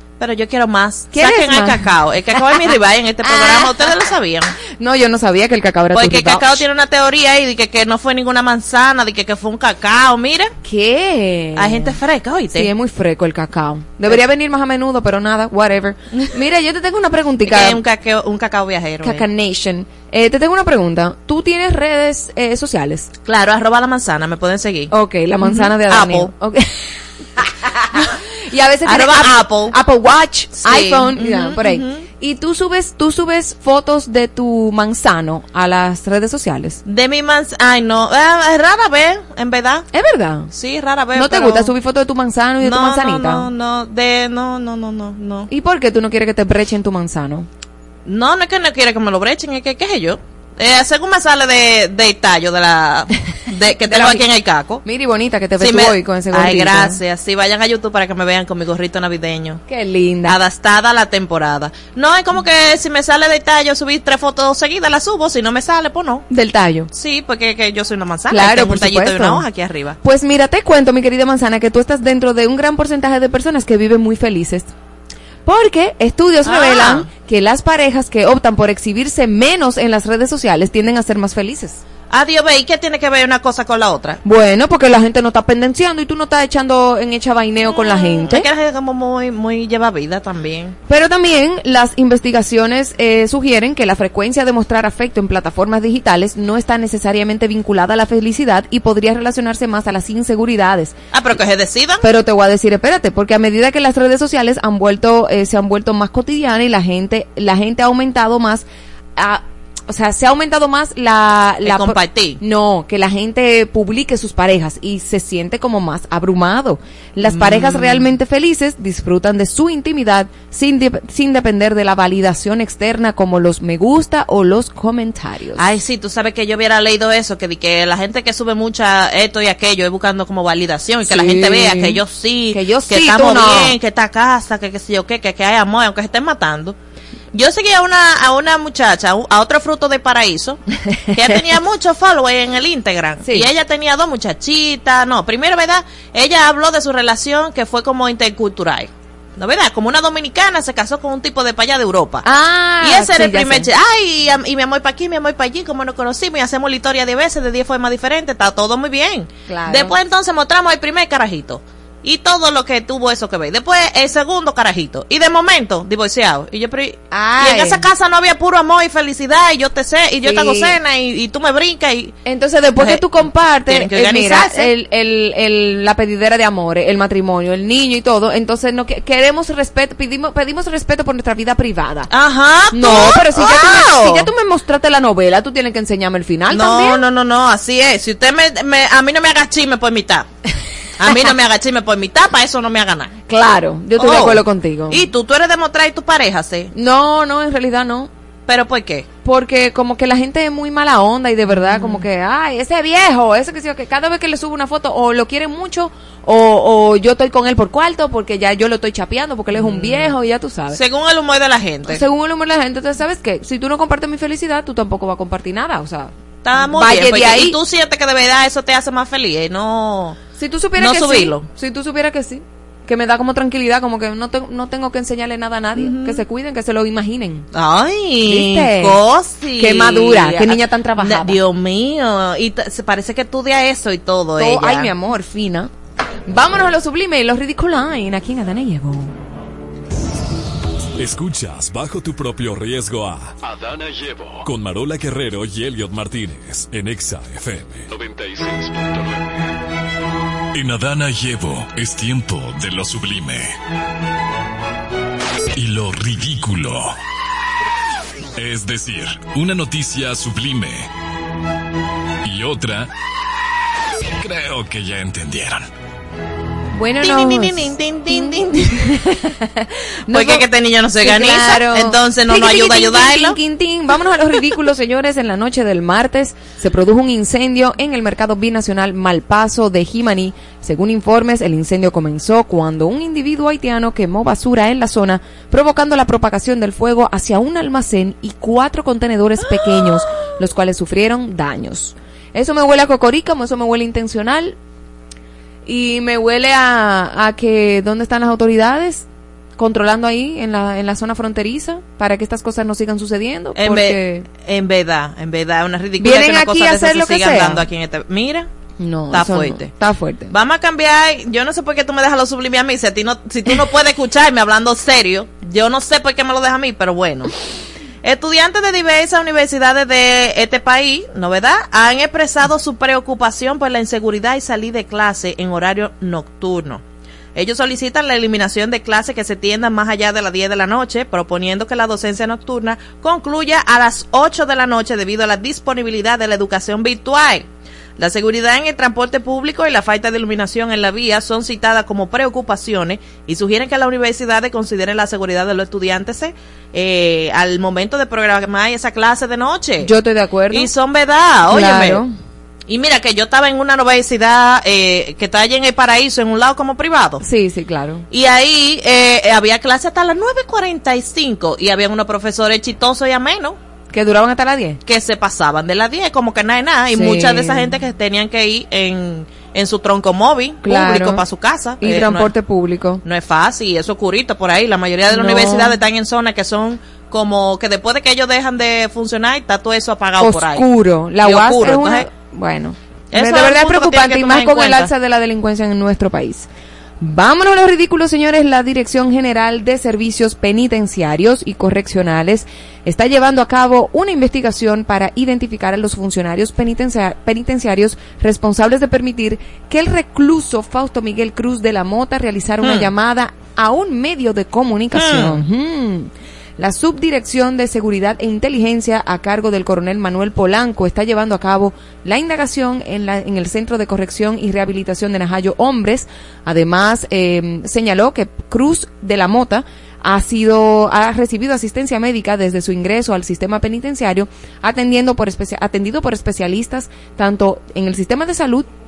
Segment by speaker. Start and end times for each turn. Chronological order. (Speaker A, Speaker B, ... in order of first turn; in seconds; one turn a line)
Speaker A: 0.2-4.5
Speaker B: 1.1-4.0
Speaker B: 4.6-6.7
Speaker A: 5.9-10.5
Speaker B: 10.6-12.0
Speaker A: 11.6-12.7
Speaker B: 12.5-17.8
Speaker A: 17.5-19.2
Speaker B: 19.0-23.1
Speaker A: 23.3-24.9
Speaker B: 24.9-36.8
Speaker A: 25.4-26.3
Speaker A: 28.9-29.8
Speaker A: 30.6-32.1
Speaker A: 36.9-39.9
Speaker B: 39.9-40.5
Speaker A: 40.5-41.7
Speaker B: 41.1-43.5
Speaker A: 42.6-45.5
Speaker B: 45.5-47.5
Speaker A: 48.1-54.8
Speaker B: 53.9-54.2
Speaker B: 54.8-57.0
Speaker A: 55.6-59.6
Speaker B: 59.7-60.4
Speaker A: 60.2-66.2
Speaker B: 66.3-66.9
Speaker A: 66.9-70.0
Speaker B: 68.3-69.5
Speaker B: 70.0-74.7
Speaker B: 75.5-81.8
Speaker A: 76.4-77.1
Speaker A: 82.1-84.2
Speaker B: 84.2-88.5
Speaker A: 87.7-90.8
Speaker B: 90.9-101.0
Speaker A: 101.1-102.0
Speaker B: 102.0-125.7
Speaker A: 111.6-112.4
Speaker A: 117.3-118.1
Speaker A: 125.6-136.8
Speaker B: 131.0-132.0
Speaker B: 132.5-133.8
Speaker A: 137.3-152.3
Speaker B: 143.2-143.5
Speaker B: 152.2-153.7
Speaker A: 152.8-172.2
Speaker B: 159.5-159.9
Speaker B: 167.1-167.8
Speaker B: 170.2-170.8
Speaker B: 172.2-182.1
Speaker A: 172.8-173.1
Speaker A: 173.7-174.7
Speaker A: 182.1-184.3
Speaker B: 182.7-187.0
Speaker A: 186.5-190.3
Speaker A: 191.0-193.1
Speaker B: 193.3-195.1
Speaker A: 194.0-196.7
Speaker B: 196.7-198.1
Speaker A: 198.5-199.1
Speaker B: 199.2-210.8
Speaker A: 201.5-202.0
Speaker A: 209.5-210.1
Speaker A: 210.7-212.0
Speaker B: 211.9-217.6
Speaker A: 216.4-220.2
Speaker B: 220.4-227.5
Speaker A: 220.8-221.5
Speaker A: 225.8-226.2
Speaker A: 227.5-234.9
Speaker B: 228.2-229.0
Speaker B: 229.6-231.4
Speaker B: 234.4-235.7
Speaker B: 236.3-239.1
Speaker C: 241.0-249.2
Speaker C: 250.5-253.6
Speaker C: 255.6-257.0
Speaker C: 258.4-260.9
Speaker C: 262.2-262.9
Speaker C: 264.2-265.7
Speaker B: 266.7-270.5
Speaker A: 267.0-268.9
Speaker A: 270.1-273.4
Speaker B: 271.0-294.6
Speaker B: 295.6-299.1
Speaker B: 299.6-304.3
Speaker A: 303.6-308.5
Speaker B: 306.0-307.6
Speaker B: 308.8-310.3
Speaker A: 309.1-309.7
Speaker A: 310.3-317.3
Speaker A: 318.0-326.8
Speaker A: 327.4-349.9
Speaker B: 349.8-350.7
Speaker A: 350.5-352.0
Speaker B: 351.4-352.1
Speaker A: 352.7-357.2
Speaker B: 357.2-358.1
Speaker A: 358.1-363.6
Speaker B: 363.9-364.8
Speaker A: 364.9-372.3
Speaker B: 366.9-367.8
Speaker B: 370.6-371.2
Speaker B: 371.8-373.0
Speaker A: 373.0-380.7
Speaker B: 375.1-375.8
Speaker B: 380.2-386.5
Speaker A: 381.2-382.1
Speaker A: 383.1-384.9
Speaker B: 387.0-428.7
Speaker A: 402.6-402.9
Speaker A: 404.9-405.4